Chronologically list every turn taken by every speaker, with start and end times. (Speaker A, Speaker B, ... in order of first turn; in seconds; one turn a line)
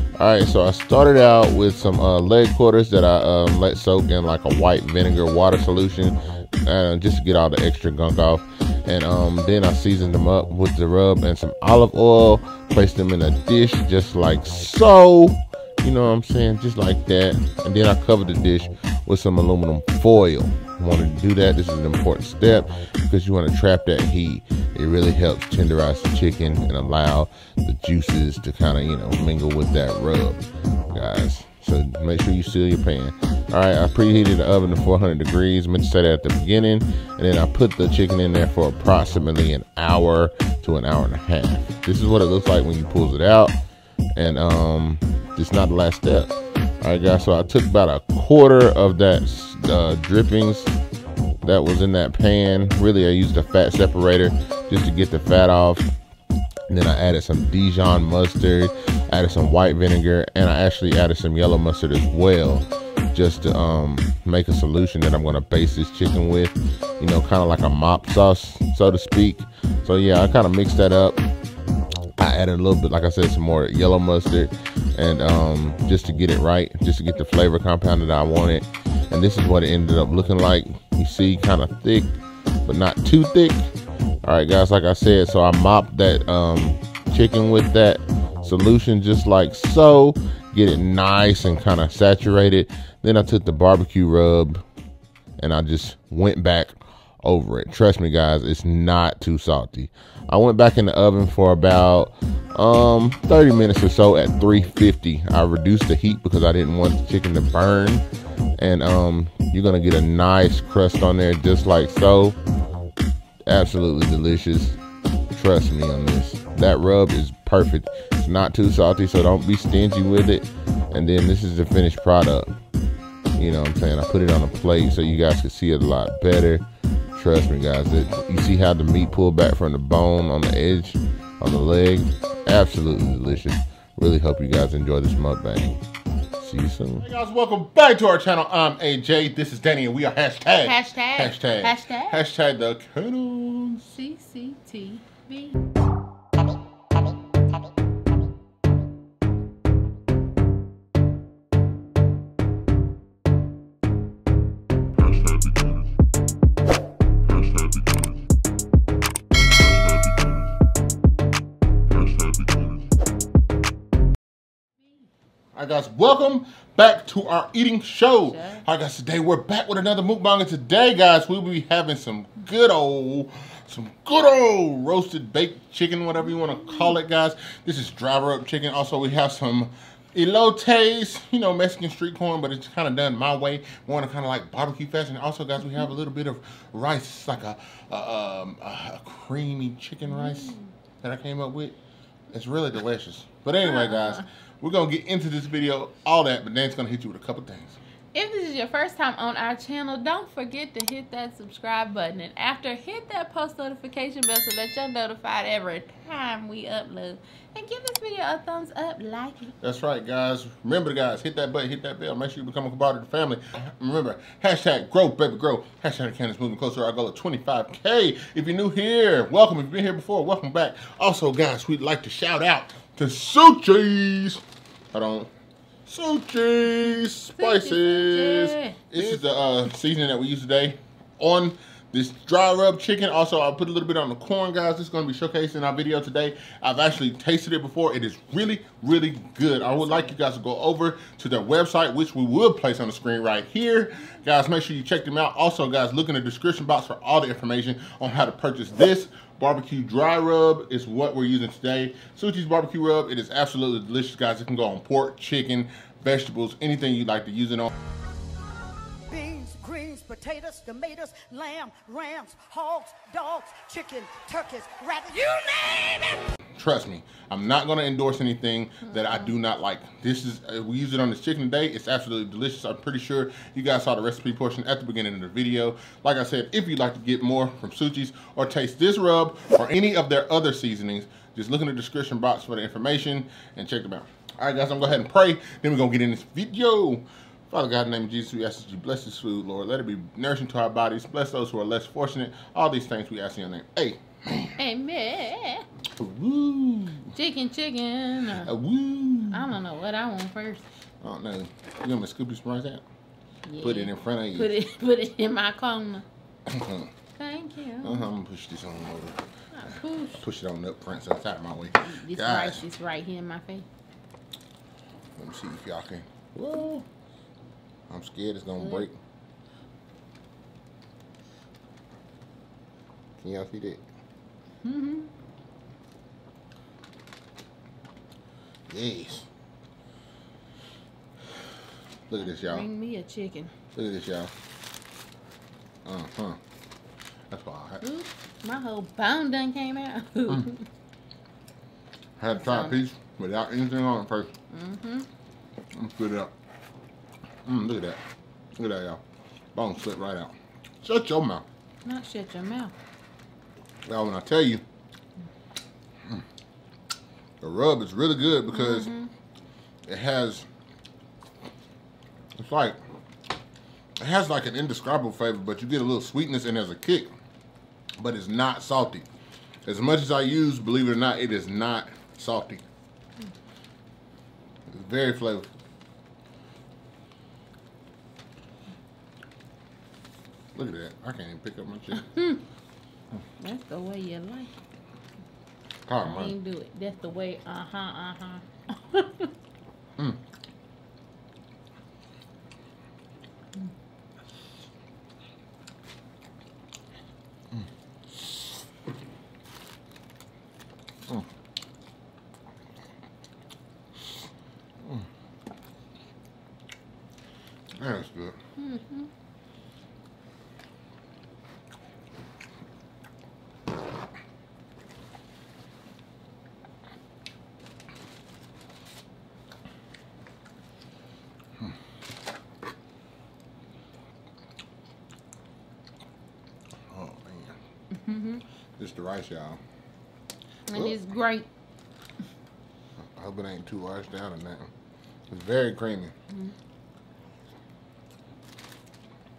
Speaker A: 0.2-43.5
Speaker A: 44.1-50.8
Speaker A: 51.4-55.9
Speaker A: 56.7-71.2
Speaker A: 72.2-83.7
Speaker A: 84.2-94.6
Speaker A: 95.4-108.0
Speaker A: 108.6-112.3
Speaker A: 113.5-114.8
Speaker A: 115.3-122.5
Speaker A: 123.4-126.6
Speaker A: 127.2-135.8
Speaker A: 136.4-143.9
Speaker B: 140.6-142.2
Speaker B: 143.9-145.6
Speaker A: 162.1-162.4
Speaker A: 165.5-191.8
Speaker B: 168.2-168.7
Speaker B: 190.1-190.7
Speaker A: 192.3-197.8
Speaker B: 193.6-194.2
Speaker B: 198.1-209.5
Speaker A: 209.6-225.3
Speaker A: 225.8-257.7
Speaker B: 227.3-228.8
Speaker B: 239.7-240.1
Speaker C: 259.1-266.2
Speaker A: 266.6-294.5
Speaker B: 268.9-269.2
Speaker B: 294.6-295.6
Speaker A: 296.0-297.1
Speaker B: 297.1-298.5
Speaker A: 298.4-299.5
Speaker B: 299.3-300.6
Speaker A: 301.0-302.8
Speaker B: 303.4-306.0
Speaker A: 303.6-304.5
Speaker A: 306.5-306.9
Speaker B: 307.1-308.1
Speaker A: 307.8-309.2
Speaker B: 309.5-310.2
Speaker A: 310.2-312.6
Speaker B: 311.8-313.6
Speaker A: 315.2-316.9
Speaker A: 317.9-319.0
Speaker B: 318.6-318.9
Speaker A: 323.2-323.8
Speaker B: 324.6-325.1
Speaker A: 328.7-329.2
Speaker A: 332.1-332.6
Speaker B: 332.2-333.5
Speaker A: 333.7-334.3
Speaker A: 335.9-336.4
Speaker A: 337.3-337.8
Speaker B: 337.8-340.6
Speaker A: 342.2-344.3
Speaker B: 342.4-342.8
Speaker B: 344.5-345.1
Speaker A: 345.7-346.3
Speaker A: 347.4-348.0
Speaker A: 348.6-349.0
Speaker A: 349.5-351.4
Speaker B: 351.8-352.7
Speaker A: 353.9-354.6
Speaker A: 357.4-358.9
Speaker B: 358.5-359.1
Speaker A: 359.9-360.5
Speaker A: 362.4-362.8
Speaker A: 364.0-367.1
Speaker A: 368.0-369.1
Speaker A: 369.6-372.6
Speaker A: 374.7-375.5
Speaker A: 380.5-382.1
Speaker B: 381.9-382.4
Speaker B: 383.4-384.5
Speaker A: 385.9-386.3
Speaker B: 386.0-389.3
Speaker A: 407.8-408.4
Speaker B: 408.6-409.1
Speaker A: 426.9-427.6
Speaker B: 427.9-428.4
Speaker A: 428.8-429.6
Speaker B: 430.7-431.5
Speaker A: 433.1-434.7
Speaker A: 435.3-436.1